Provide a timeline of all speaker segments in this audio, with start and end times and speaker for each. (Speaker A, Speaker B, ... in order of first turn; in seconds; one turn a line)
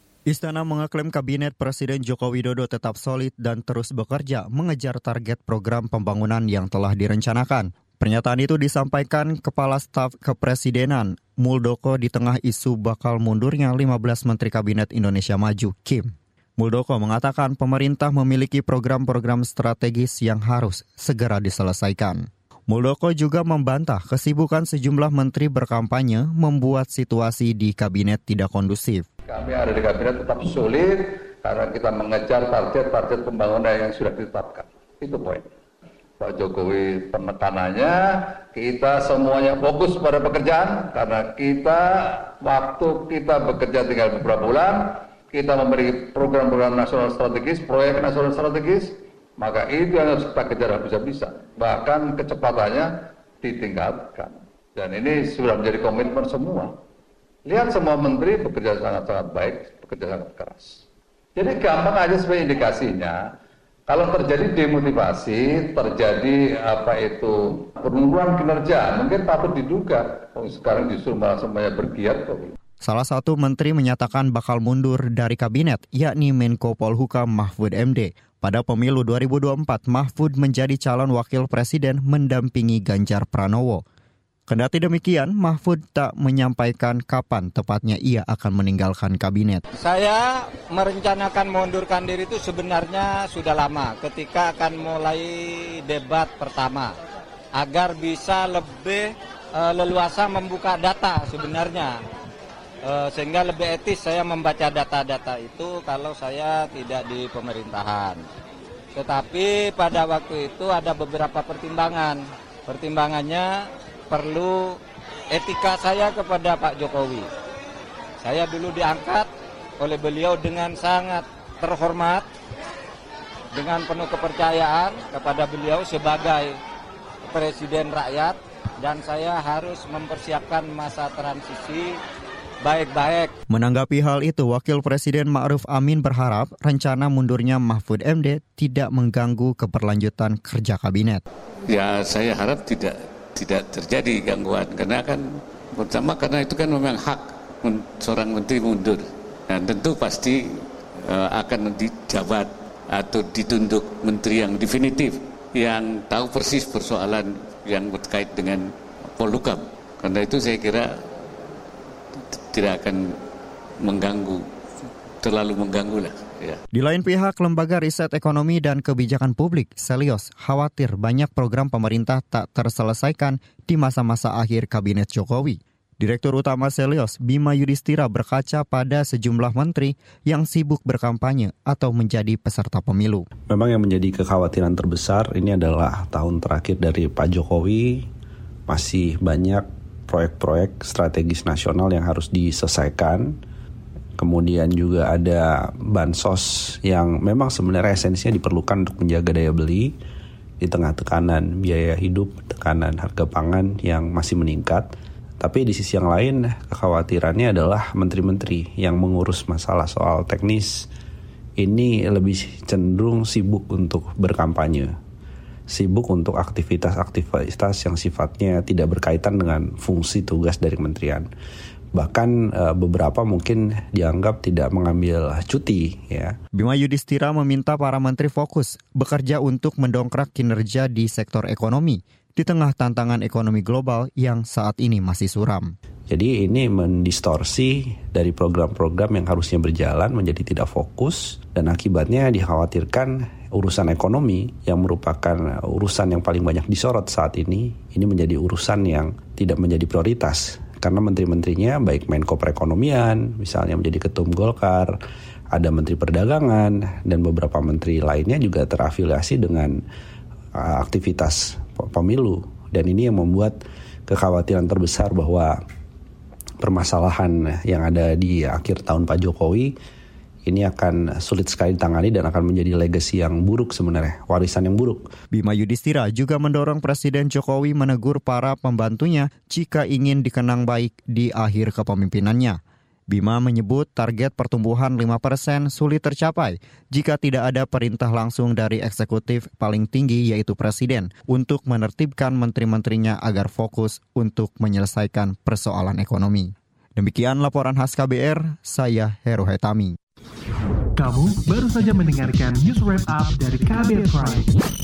Speaker A: 0.3-29.1
Speaker B: 29.2-35.5
Speaker B: 36.2-56.7
Speaker B: 57.5-60.8
Speaker B: 61.3-63.2
Speaker B: 63.9-72.5
Speaker A: 72.8-83.8
Speaker A: 84.5-89.6
Speaker C: 89.8-96.9
Speaker C: 97.5-101.9
Speaker C: 102.8-108.2
Speaker C: 108.9-113.5
Speaker C: 114.1-114.8
Speaker C: 115.3-117.3
Speaker C: 118.2-122.3
Speaker C: 123.5-126.6
Speaker C: 127.2-131.9
Speaker C: 132.6-133.3
Speaker A: 133.5-141.2
Speaker D: 141.7-145.2
Speaker D: 145.7-150.4
Speaker D: 151.1-158.6
Speaker D: 159.1-160.9
Speaker D: 162.3-163.0
Speaker D: 163.8-164.4
Speaker D: 165.2-166.6
Speaker A: 166.7-183.3
Speaker E: 183.5-188.0
Speaker E: 188.7-193.3
Speaker E: 194.2-199.9
Speaker E: 200.6-204.9
Speaker E: 205.4-210.7
Speaker E: 211.6-214.9
Speaker E: 215.7-221.3
Speaker E: 221.9-226.3
Speaker A: 226.5-235.7
Speaker E: 236.1-254.9
Speaker E: 255.5-259.7
Speaker E: 260.6-263.6
Speaker E: 264.1-265.5
Speaker E: 266.6-269.7
Speaker E: 270.4-275.0
Speaker A: 275.3-282.6
Speaker A: 283.1-299.9
Speaker F: 300.9-304.6